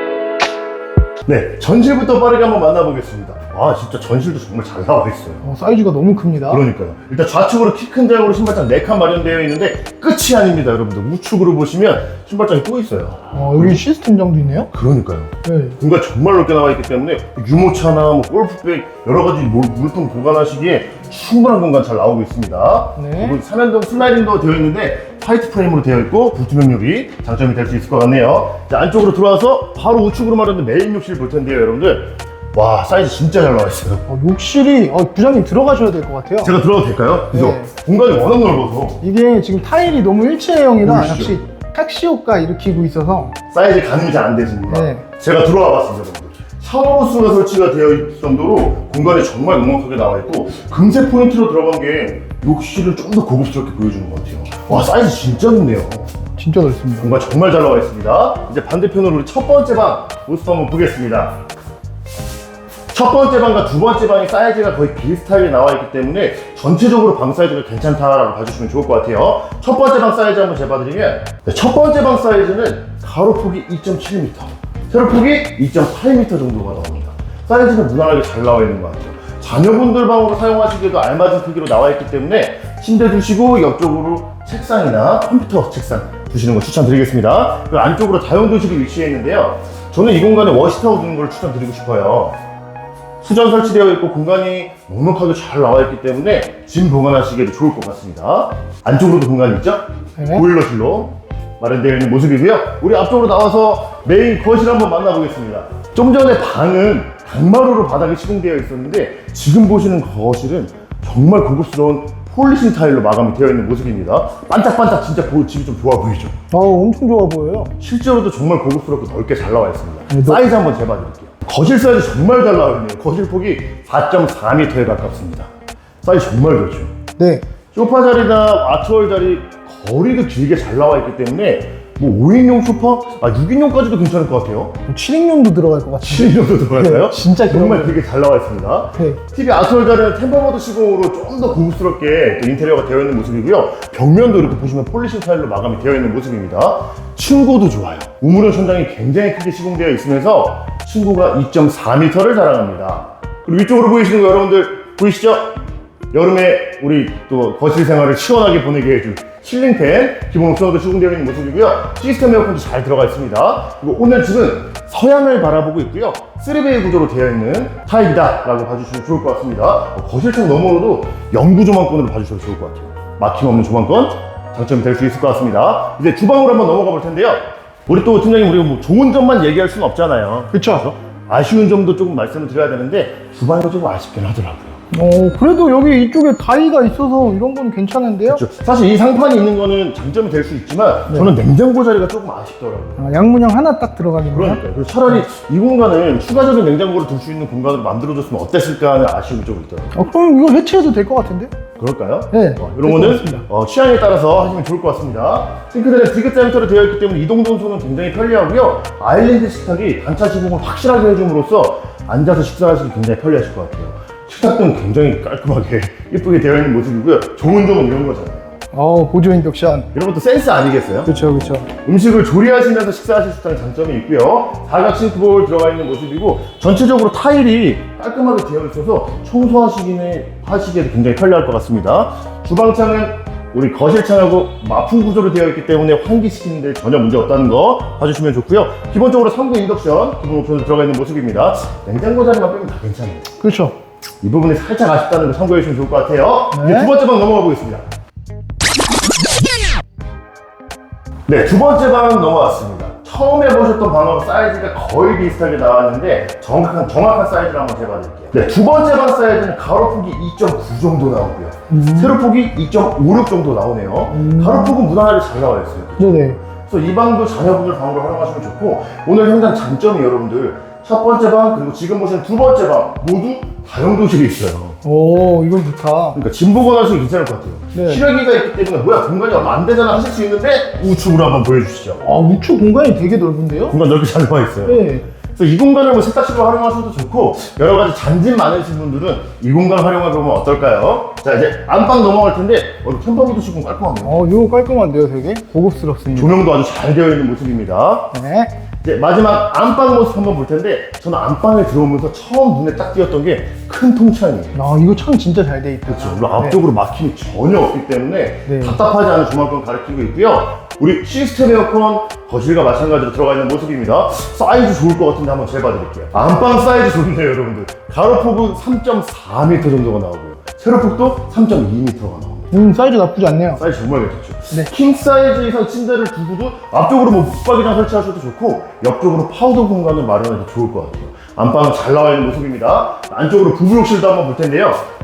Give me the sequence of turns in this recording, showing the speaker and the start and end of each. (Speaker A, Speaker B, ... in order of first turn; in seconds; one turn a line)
Speaker A: 1.3-5.5
Speaker B: 5.4-6.6
Speaker A: 6.5-13.8
Speaker B: 13.3-14.7
Speaker A: 14.7-34.1
Speaker B: 15.4-15.8
Speaker B: 23.0-23.4
Speaker B: 34.1-36.5
Speaker A: 36.4-39.0
Speaker B: 37.3-37.7
Speaker B: 39.0-43.4
Speaker A: 40.8-41.4
Speaker A: 43.5-56.1
Speaker B: 44.7-45.0
Speaker B: 56.4-57.2
Speaker A: 57.0-61.4
Speaker A: 62.9-92.4
Speaker A: 93.2-116.3
Speaker B: 100.2-100.5
Speaker B: 116.5-117.8
Speaker A: 117.8-125.5
Speaker B: 120.1-120.5
Speaker A: 126.0-126.9
Speaker B: 127.2-127.5
Speaker A: 127.7-134.8
Speaker B: 134.9-138.0
Speaker A: 136.0-155.6
Speaker A: 156.1-184.8
Speaker B: 180.5-180.8
Speaker B: 184.9-188.4
Speaker A: 188.3-193.1
Speaker B: 193.0-194.6
Speaker A: 194.3-199.9
Speaker B: 199.9-201.5
Speaker A: 201.8-218.5
Speaker B: 202.3-203.4
Speaker B: 218.7-219.9
Speaker A: 219.9-243.3
Speaker B: 221.1-221.7
Speaker B: 243.4-243.8
Speaker A: 244.2-247.8
Speaker B: 246.5-246.9
Speaker A: 251.3-274.8
Speaker B: 261.7-262.2
Speaker B: 264.1-264.8
Speaker B: 266.0-266.4
Speaker B: 274.8-276.2
Speaker A: 276.1-282.0
Speaker B: 277.7-278.0
Speaker B: 282.0-283.8
Speaker A: 283.7-294.2
Speaker B: 284.6-285.1
Speaker B: 294.0-296.4
Speaker A: 296.2-298.1
Speaker B: 298.1-298.5
Speaker A: 298.8-304.6
Speaker B: 304.5-306.6
Speaker A: 305.9-322.5
Speaker B: 308.5-308.8
Speaker B: 322.5-323.6
Speaker A: 323.6-334.8